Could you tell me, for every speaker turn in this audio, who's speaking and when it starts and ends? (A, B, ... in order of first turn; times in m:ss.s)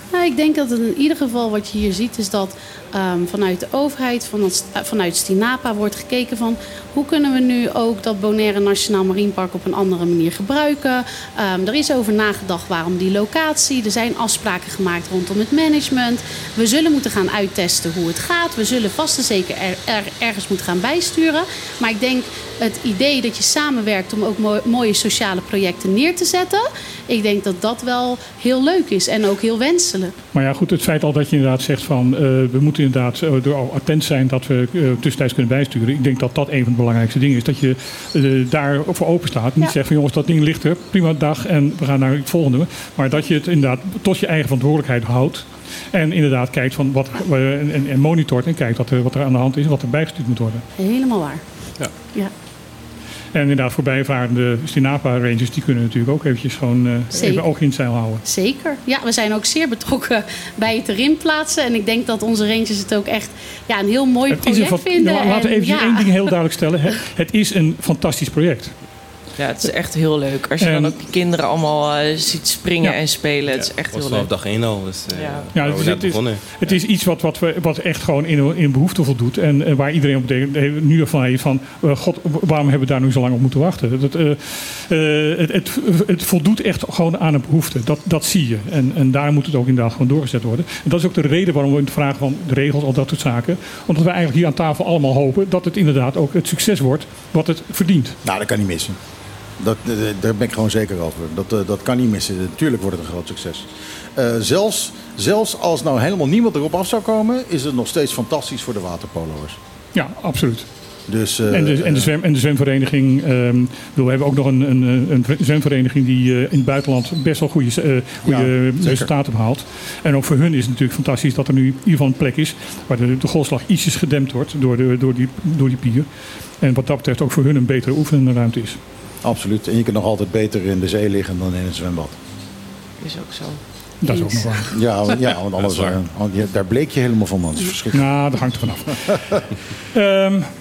0:00.1-0:30.1 A
0:30.3-0:50.6 B
0:50.8-0:51.4 A
0:52.1-0:52.3 A
0:53.3-0:58.2 B
0:57.1-0:57.5 A
0:58.2-1:06.3 A
1:04.3-1:08.8 B
1:09.4-1:14.3 C
1:10.6-1:11.0 B
1:13.5-1:16.8 D
1:15.1-1:15.5 C
1:15.6-1:38.2 B
1:38.2-1:39.0 E
1:39.6-1:49.6 E
1:49.9-1:50.7 B
1:51.1-1:52.1 E
1:51.5-2:06.1 B
1:58.2-1:59.1 E
2:06.6-2:08.8 B
2:09.2-2:12.2 E
2:13.0-2:13.6 C
2:14.0-2:14.7 B
2:14.0-2:14.6 A
2:14.7-2:19.4 E
2:15.6-2:16.0 D
2:17.9-2:19.2 B
2:19.9-2:20.5 B